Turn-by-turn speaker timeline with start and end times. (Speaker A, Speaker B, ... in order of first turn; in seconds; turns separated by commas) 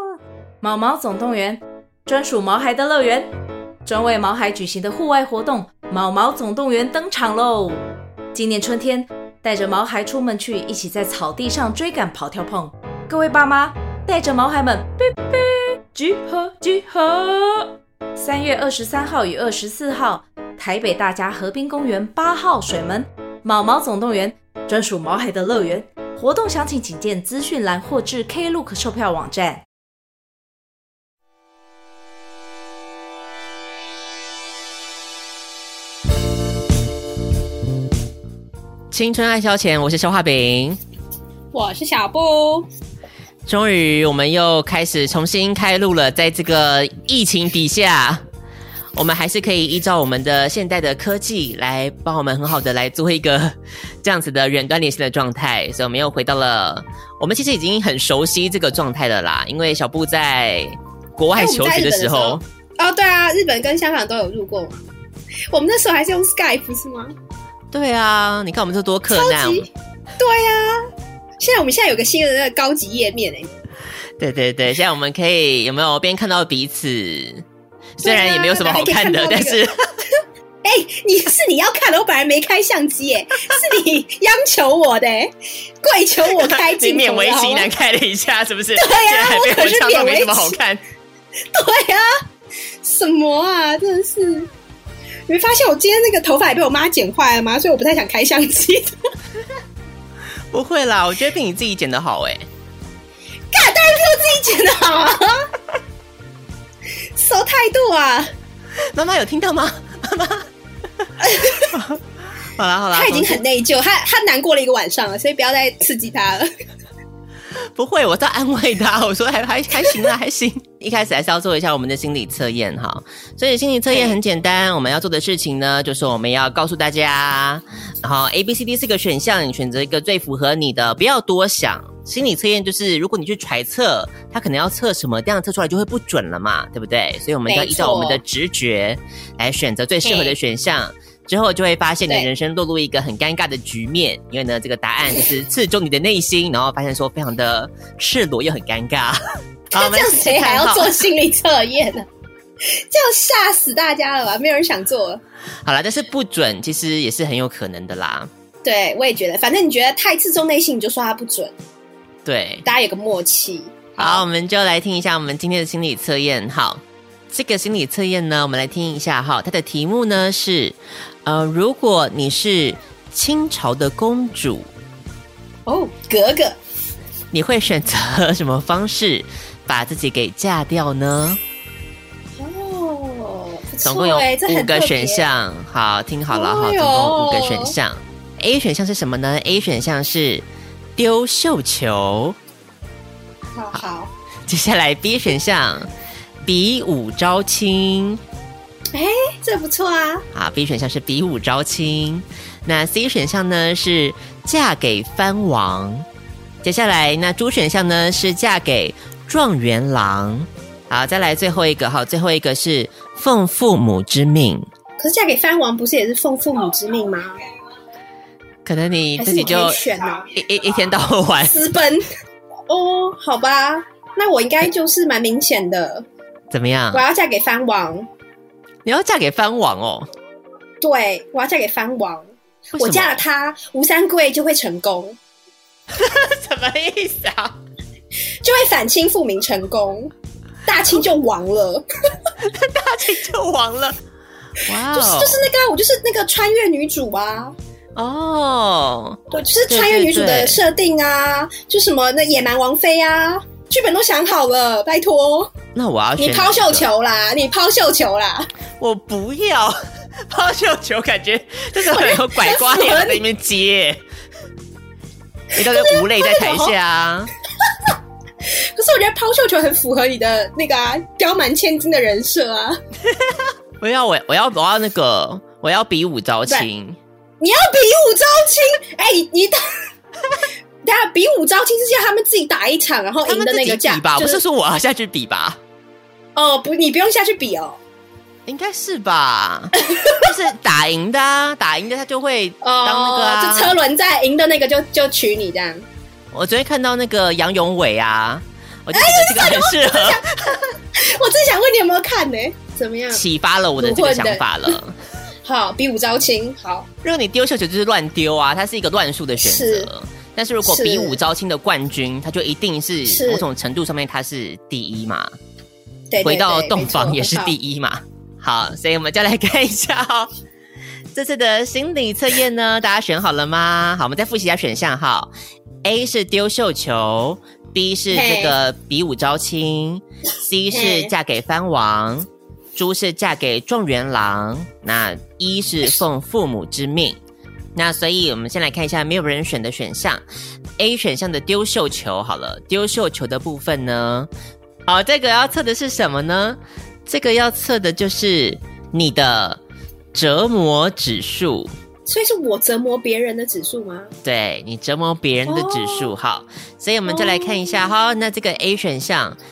Speaker A: 0.6-3.3, Speaker A: 3.9-29.6, Speaker B: 38.9-40.8, Speaker C: 41.5-42.7, Speaker B: 43.5-48.2, Speaker B: 49.0-62.4, Speaker C: 61.4-64.8, Speaker C: 65.5-67.2, Speaker B: 67.7-69.7, Speaker C: 69.1-73.5, Speaker B: 74.2-77.5, Speaker B: 78.0-79.8, Speaker C: 78.0-79.6, Speaker C: 80.6-87.7, Speaker B: 86.3-90.8, Speaker C: 88.8-90.6, Speaker C: 91.5-92.2, Speaker C: 92.8-94.5, Speaker C: 95.3-99.0, Speaker B: 100.5-102.5, Speaker C: 103.5-105.5, Speaker C: 107.1-108.3, Speaker B: 108.9-110.5, Speaker C: 111.2-111.7, Speaker B: 111.7-112.0, Speaker B: 112.6-113.4, Speaker C: 112.9-116.5, Speaker B: 117.8-151.1, Speaker C: 137.5-138.2, Speaker C: 140.1-140.3, Speaker C: 149.7-152.1, Speaker C: 152.6-155.2, Speaker B: 155.7-158.3, Speaker C: 158.6-161.5, Speaker B: 162.2-162.7, Speaker C: 162.7-164.2, Speaker B: 164.0-174.7, Speaker C: 175.7-176.6, Speaker B: 177.3-181.4, Speaker C: 182.4-185.2, Speaker B: 183.8-190.4, Speaker C: 186.3-187.7, Speaker B: 191.0-192.4, Speaker C: 193.6-194.1, Speaker B: 194.5-195.9, Speaker B: 196.4-198.2, Speaker C: 198.9-200.3, Speaker B: 200.3-206.1, Speaker B: 206.6-214.7, Speaker C: 215.0-217.4, Speaker B: 218.7-219.8, Speaker C: 219.2-220.3, Speaker B: 220.3-221.6, Speaker C: 221.5-222.1, Speaker C: 222.7-226.1, Speaker B: 226.5-227.0, Speaker C: 226.9-228.1, Speaker B: 228.8-230.1, Speaker C: 230.8-235.2, Speaker B: 232.7-233.2, Speaker B: 235.9-237.6, Speaker C: 238.4-240.1, Speaker C: 240.7-241.9, Speaker B: 242.4-244.0, Speaker B: 244.7-245.5, Speaker C: 244.9-247.5, Speaker B: 248.0-250.6, Speaker C: 249.3-255.5, Speaker B: 255.7-256.9, Speaker C: 256.2-258.5, Speaker B: 258.8-259.8, Speaker B: 260.3-264.0, Speaker C: 261.9-263.2, Speaker B: 265.5-267.3, Speaker C: 265.6-266.7, Speaker C: 268.4-272.8, Speaker B: 273.1-277.0, Speaker C: 277.4-279.6, Speaker C: 280.8-284.4, Speaker B: 283.2-285.6, Speaker C: 286.4-287.8, Speaker B: 288.5-293.8, Speaker C: 289.8-290.2, Speaker C: 292.6-295.9, Speaker B: 296.3-300.3, Speaker C: 298.9-303.2, Speaker B: 303.1-304.9, Speaker C: 303.8-304.4, Speaker C: 305.4-306.9, Speaker B: 307.0-315.3, Speaker C: 309.4-309.9, Speaker C: 310.6-311.2, Speaker C: 313.1-313.4, Speaker C: 316.1-317.5, Speaker B: 316.2-320.3, Speaker B: 321.1-325.3, Speaker B: 325.8-337.2, Speaker C: 328.1-328.6, Speaker C: 330.7-331.1, Speaker B: 337.8-340.2, Speaker B: 340.8-344.3, Speaker B: 344.9-349.6, Speaker B: 350.1-351.7, Speaker C: 352.1-354.1, Speaker B: 354.2-359.4, Speaker C: 355.5-356.1, Speaker C: 357.1-357.6